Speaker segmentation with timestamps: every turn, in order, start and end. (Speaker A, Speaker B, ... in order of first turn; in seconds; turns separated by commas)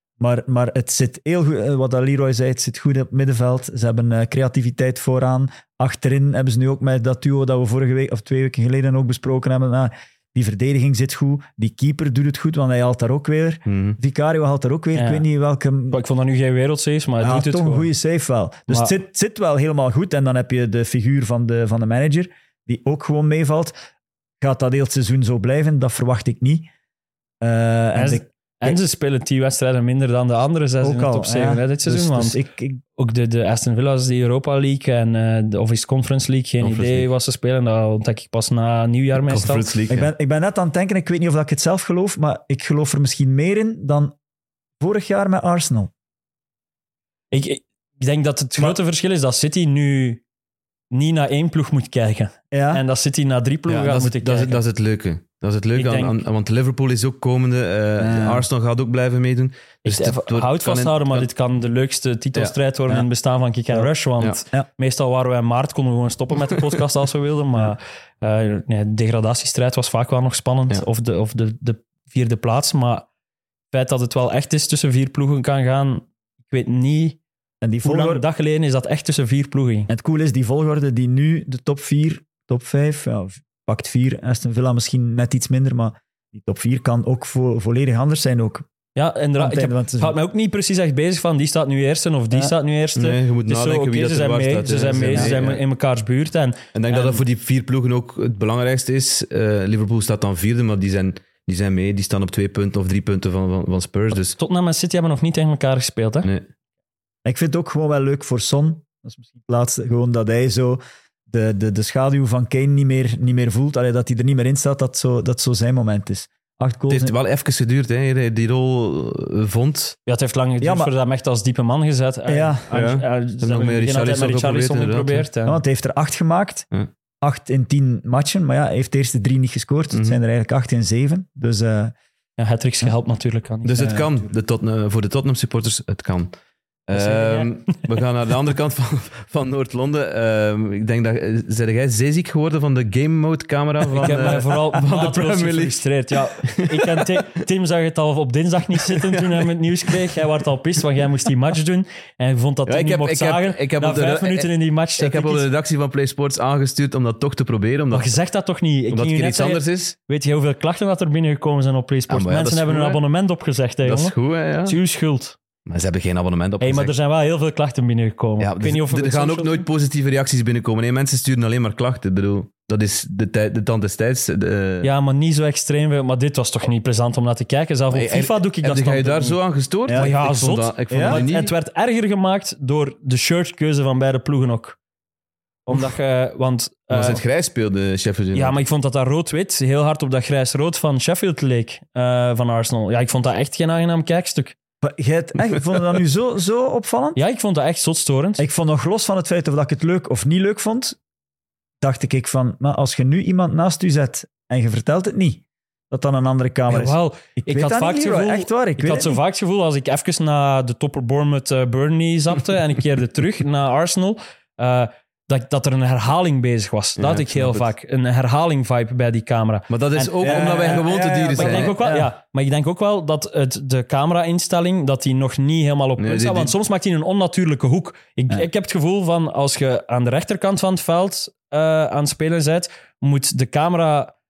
Speaker A: 0.2-16.0, Speaker B: 13.7-14.0, Speaker C: 14.9-15.2, Speaker C: 15.9-17.9, Speaker A: 17.2-23.7, Speaker A: 24.4-26.7, Speaker A: 27.4-28.8, Speaker C: 27.9-32.4, Speaker A: 30.8-32.8, Speaker C: 33.0-39.7, Speaker B: 36.6-37.1, Speaker B: 39.2-40.1, Speaker A: 39.9-44.1, Speaker A: 44.8-45.9, Speaker C: 47.3-50.2, Speaker C: 50.9-54.6, Speaker A: 52.5-52.8, Speaker B: 53.7-61.3, Speaker C: 55.8-56.2, Speaker A: 58.0-58.5, Speaker C: 59.9-73.1, Speaker C: 73.7-77.2, Speaker A: 77.6-78.2, Speaker C: 77.8-79.9, Speaker A: 79.9-88.7, Speaker C: 89.0-97.2, Speaker A: 89.4-90.2, Speaker B: 93.0-95.6, Speaker B: 96.7-104.4, Speaker C: 104.4-106.3, Speaker B: 106.2-106.5, Speaker A: 107.2-117.1, Speaker B: 116.9-120.0, Speaker C: 120.1-125.6, Speaker A: 120.6-120.9, Speaker A: 122.3-122.6, Speaker B: 122.7-125.3, Speaker A: 125.5-126.7, Speaker A: 127.2-131.9, Speaker B: 129.9-130.2, Speaker C: 132.4-133.9, Speaker B: 133.6-136.3, Speaker A: 133.8-134.3, Speaker B: 136.9-145.9, Speaker C: 136.9-137.8, Speaker C: 143.9-155.5, Speaker B: 146.4-147.4, Speaker B: 148.9-149.9, Speaker B: 152.7-158.1, Speaker C: 157.9-165.4, Speaker B: 158.9-159.9, Speaker B: 162.1-163.0, Speaker B: 163.8-164.8, Speaker B: 165.7-166.9, Speaker C: 166.6-169.7, Speaker B: 168.4-174.9, Speaker C: 174.8-179.4, Speaker B: 177.9-181.5, Speaker C: 179.9-184.8, Speaker A: 180.9-181.2, Speaker C: 185.7-187.2, Speaker B: 186.9-188.6, Speaker C: 188.3-194.6, Speaker A: 194.8-197.2, Speaker C: 197.2-198.4, Speaker A: 198.4-201.0, Speaker A: 201.8-209.2, Speaker C: 206.7-234.1, Speaker B: 217.0-217.7, Speaker B: 219.7-221.8, Speaker A: 220.2-222.1, Speaker B: 226.0-226.5